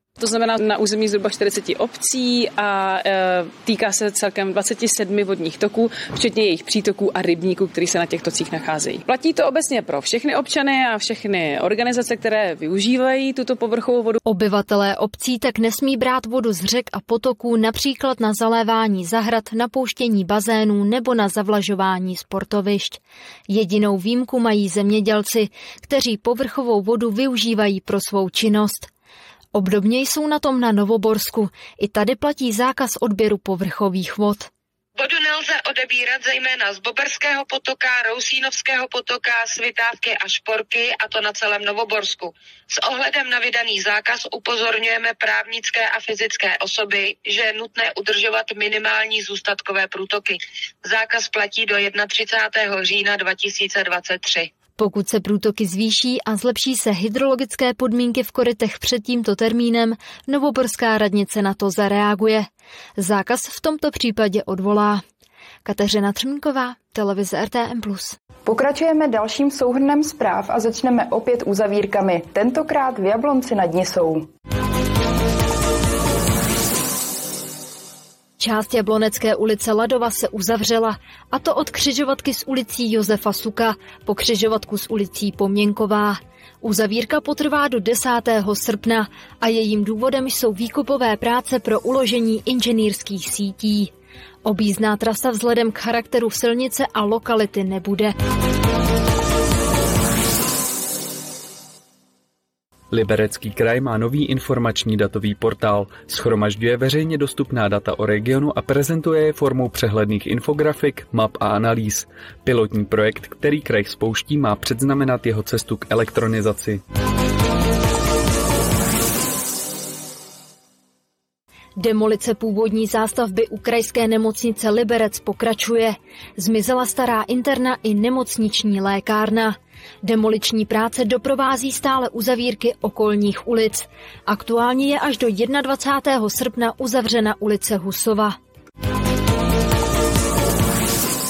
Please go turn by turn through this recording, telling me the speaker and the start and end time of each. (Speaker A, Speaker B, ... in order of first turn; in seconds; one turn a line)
Speaker A: 0.2-14.2
Speaker B: 14.2-28.9
Speaker B: 29.5-34.5
Speaker C: 35.0-54.5
Speaker B: 54.8-62.5
Speaker B: 63.0-65.0
Speaker B: 65.6-68.2
Speaker D: 68.5-74.2
Speaker B: 78.4-93.9
Speaker B: 94.4-98.1
Speaker E: 102.9-116.8
Speaker B: 121.8-138.3